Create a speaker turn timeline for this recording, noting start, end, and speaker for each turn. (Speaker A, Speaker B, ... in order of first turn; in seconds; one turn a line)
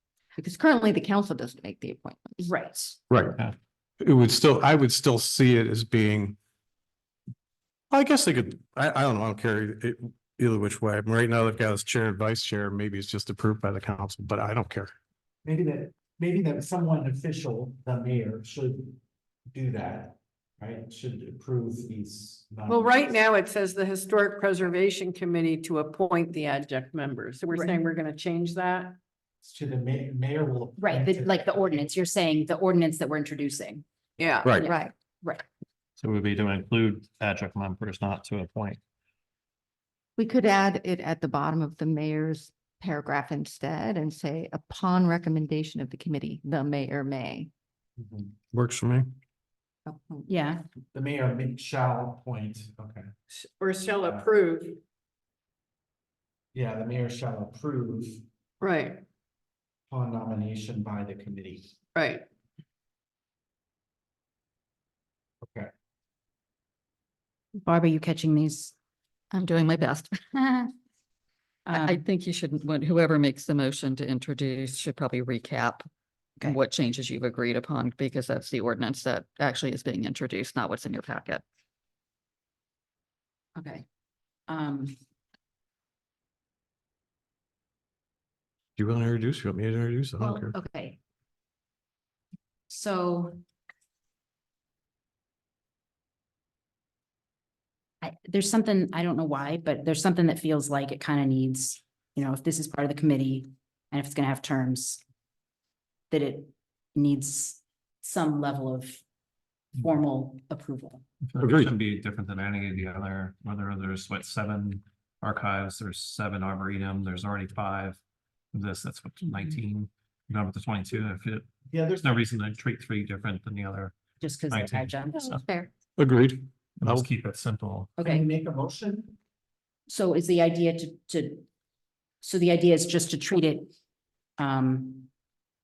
Speaker A: 0.4-2.5
Speaker B: 2.4-3.0
Speaker C: 3.1-3.4
Speaker C: 4.0-6.4
Speaker C: 7.9-14.9
Speaker D: 15.4-19.0
Speaker D: 19.5-23.2
Speaker E: 22.7-29.0
Speaker D: 29.4-31.9
Speaker B: 30.8-33.8
Speaker E: 34.2-34.5
Speaker B: 34.5-35.4
Speaker A: 34.6-34.9
Speaker F: 36.0-38.8
Speaker A: 40.2-47.5
Speaker D: 48.0-48.4
Speaker C: 48.5-49.1
Speaker A: 49.9-50.3
Speaker B: 50.3-50.6
Speaker D: 50.9-53.1
Speaker E: 53.3-54.8
Speaker D: 54.0-54.3
Speaker D: 56.5-58.2
Speaker E: 58.6-59.0
Speaker D: 59.9-61.7
Speaker E: 62.0-62.3
Speaker D: 65.4-65.7
Speaker B: 67.7-68.7
Speaker G: 69.3-70.7
Speaker B: 71.7-72.0
Speaker G: 71.7-75.8
Speaker G: 76.4-81.4
Speaker B: 83.6-83.8
Speaker B: 84.5-85.0
Speaker C: 88.8-90.5
Speaker B: 90.2-91.0
Speaker B: 92.7-93.4
Speaker B: 98.0-105.0
Speaker B: 106.1-109.0
Speaker B: 109.8-111.0
Speaker F: 111.2-118.0
Speaker C: 111.4-111.7
Speaker F: 118.5-123.9
Speaker D: 121.7-122.1
Speaker B: 124.2-125.2
Speaker F: 124.5-125.4
Speaker A: 125.2-125.7
Speaker C: 126.0-127.1
Speaker F: 126.8-127.9
Speaker D: 128.0-129.2
Speaker B: 129.9-131.4
Speaker B: 132.2-133.7
Speaker B: 134.4-135.1